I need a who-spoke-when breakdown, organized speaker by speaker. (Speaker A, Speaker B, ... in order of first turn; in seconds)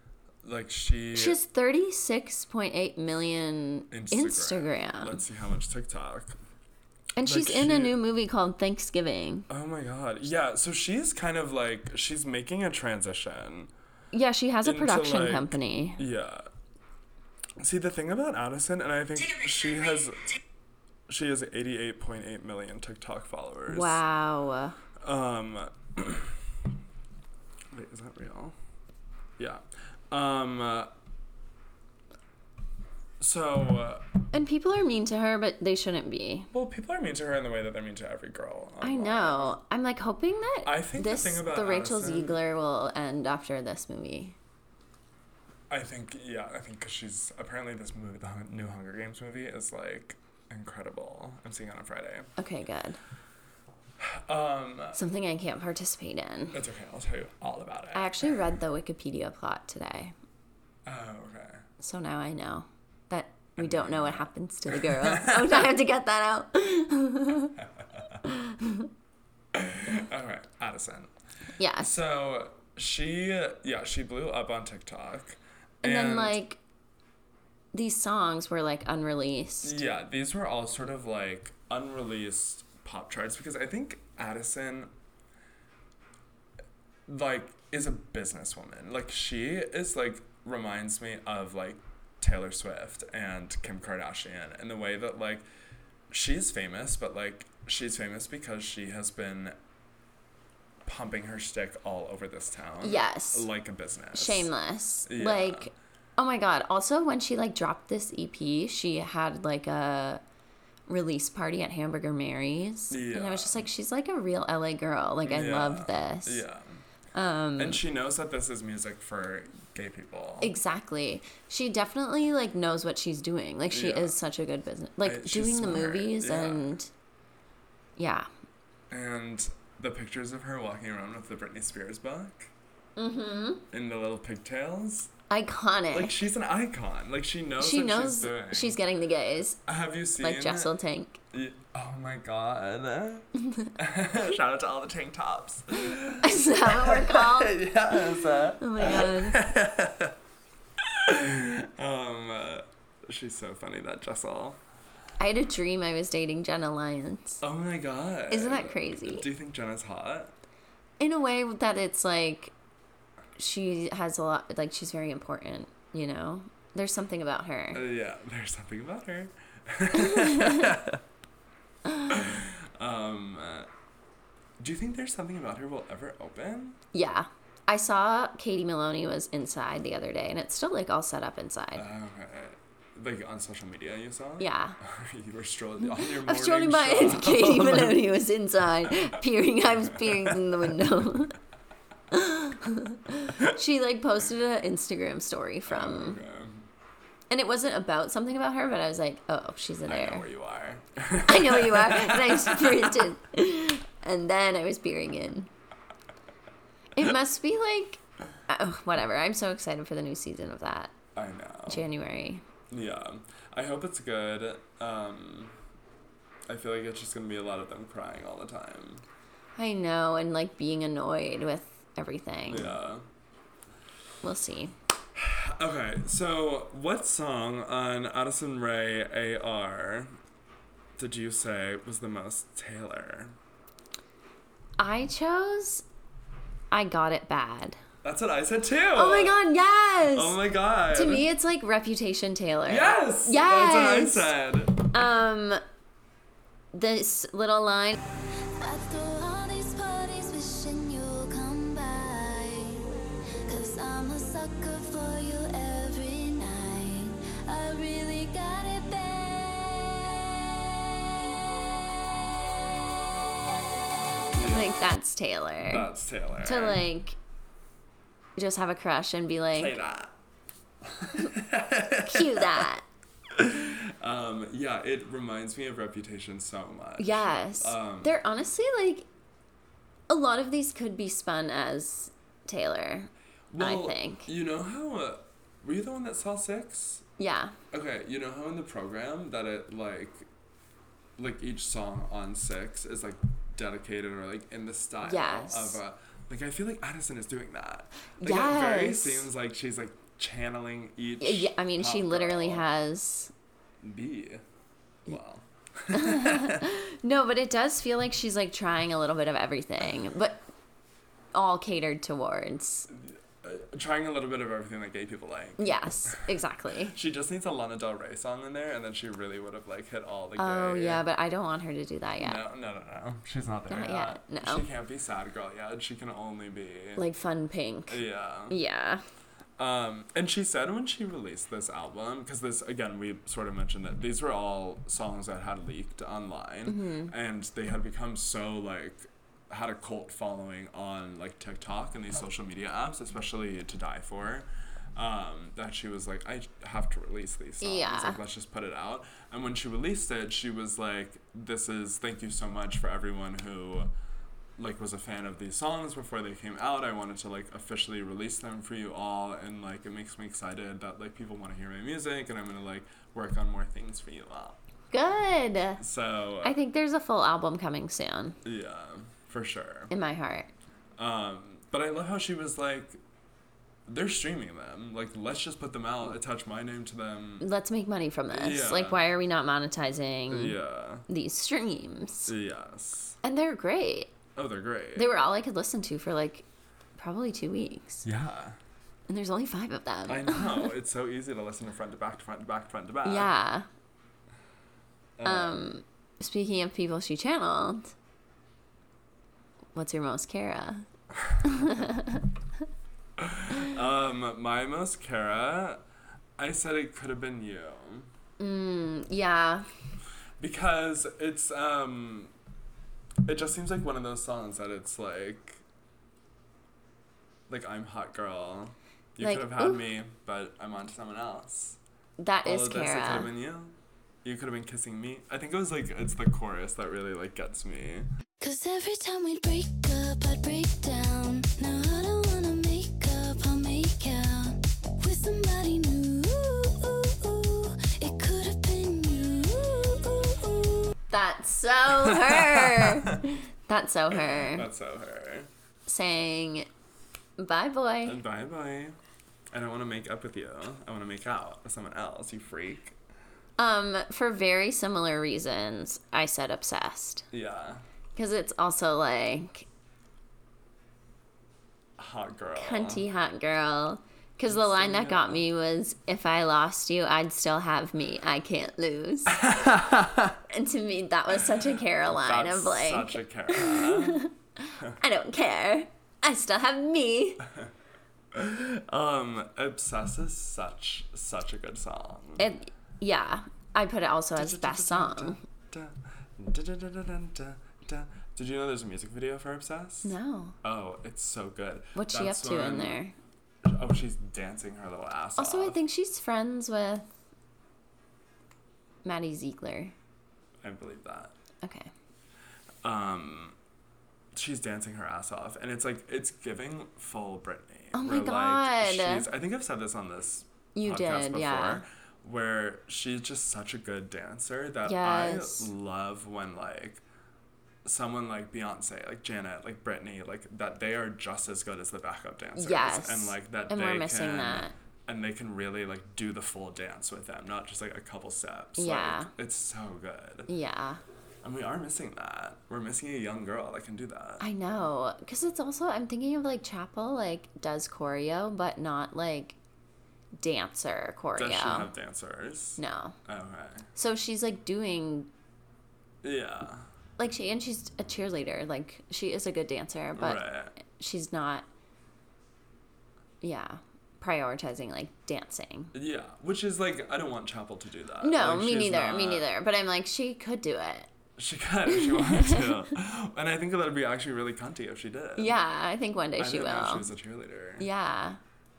Speaker A: 0.4-1.4, 3.9-6.4, 7.2-8.0, 9.5-13.7, 14.6-16.5, 17.6-20.3, 21.1-24.0, 25.0-26.4, 27.7-28.6, 29.4-30.9, 33.2-34.1, 36.5-39.6, 40.6-42.4, 45.7-52.3, 54.0-55.0, 56.5-58.4, 60.9-61.6, 63.6-65.7, 67.6-68.2, 69.5-71.1, 71.8-76.4, 79.6-84.9, 87.1-95.4, 96.1-99.6, 100.9-104.5, 105.1-105.7, 112.9-113.7, 115.2-116.8, 117.6-120.5, 123.7-124.2, 125.0-126.8, 128.9-132.5, 133.7-135.1, 135.9-138.8, 139.7-140.7, 141.3-150.2, 150.8-154.6, 157.4-160.3, 167.7-171.0, 172.1-173.7, 174.6-176.8, 181.8-188.0, 190.1-190.4, 195.7-196.7, 199.9-203.1, 211.2-211.9, 212.7-215.6, 216.5-219.0, 222.5-223.1, 225.2-230.2, 231.0-233.4, 238.0-239.4, 240.1-241.3, 242.7-245.0, 264.3-264.8, 265.7-266.9, 269.5-270.1, 270.8-272.7, 273.3-278.2, 283.5-287.1, 287.7-290.3, 291.2-302.6, 303.8-304.4, 305.1-306.6, 312.9-316.3, 316.9-321.0, 322.2-327.0, 327.9-328.6, 329.6-353.9, 354.6-364.6, 365.8-366.6, 368.4-369.9, 371.0-373.0, 373.9-377.5, 378.3-379.0, 380.3-381.1, 382.3-383.2, 384.4-385.1, 388.0-388.6, 390.1-393.3, 395.2-395.7, 403.2-405.8, 406.4-408.1, 410.4-412.3, 413.3-415.6, 417.5-421.8, 422.4-428.1, 442.0-443.2, 444.1-445.5, 448.1-449.0, 449.5-453.0, 457.3-457.9, 462.0-463.1, 464.5-465.4, 469.3-470.4, 472.0-474.3, 478.3-482.5, 484.4-493.0, 493.6-495.8, 500.6-501.3, 502.8-503.6, 504.4-517.0, 517.9-530.5, 531.4-534.5, 541.4-543.9, 546.2-546.9, 550.1-550.8, 555.9-559.5, 561.4-565.6, 566.4-567.9
Speaker B: 1.1-5.2, 7.2-9.5, 14.1-16.0, 23.7-24.8, 34.3-36.5, 38.8-44.4, 52.4-53.0, 55.0-56.6, 57.9-60.1, 61.8-67.5, 68.2-68.9, 71.6-72.0, 75.8-76.6, 77.7-79.8, 102.8-103.5, 104.1-110.2, 110.9-116.4, 117.1-117.8, 120.4-126.9, 128.0-128.3, 133.0-133.7, 135.3-136.2, 137.6-139.6, 140.2-141.2, 146.2-149.5, 155.2-157.4, 158.3-159.3, 161.0-162.5, 163.4-167.8, 169.9-170.8, 171.9-172.2, 176.9-181.9, 184.4-184.8, 185.8-191.4, 192.1-196.2, 197.3-200.3, 201.2-205.5, 206.9-210.9, 211.7-212.4, 219.6-222.8, 224.2-224.7, 234.8-235.8, 236.7-237.8, 238.9-240.4, 240.9-244.3, 244.9-245.6, 246.7-248.0, 264.4-265.9, 266.4-267.2, 268.4-269.8, 272.1-272.9, 277.0-279.1, 280.1-284.3, 287.2-287.6, 295.0-295.8, 298.2-299.3, 301.2-303.3, 305.9-310.5, 311.3-312.9, 315.6-316.9, 320.4-322.4, 323.7-324.6, 327.0-329.0, 336.7-337.1, 347.6-348.2, 364.9-365.8, 366.4-368.4, 369.9-370.5, 377.4-382.3, 383.2-384.1, 384.9-386.4, 387.0-388.1, 389.1-390.7, 393.0-393.7, 395.2-397.9, 399.8-400.9, 401.4-402.3, 408.4-409.7, 419.2-419.8, 422.2-423.3, 441.1-444.7, 445.9-446.7, 447.4-448.2, 453.6-457.3, 458.2-459.7, 462.6-469.4, 470.5-477.4, 482.4-485.4, 490.0-490.6, 491.9-493.1, 495.4-497.1, 499.0-499.9, 501.6-501.9, 507.9-509.3, 510.8-511.8, 514.9-515.7, 522.6-524.7, 528.8-529.3, 530.5-531.0, 534.4-539.6, 540.4-541.9, 542.8-543.2, 544.0-545.3, 547.2-551.7, 553.4-555.9, 558.2-561.1, 561.9-562.9, 565.4-567.1, 567.8-568.4
Speaker C: 248.6-252.9, 253.5-260.1, 428.4-440.9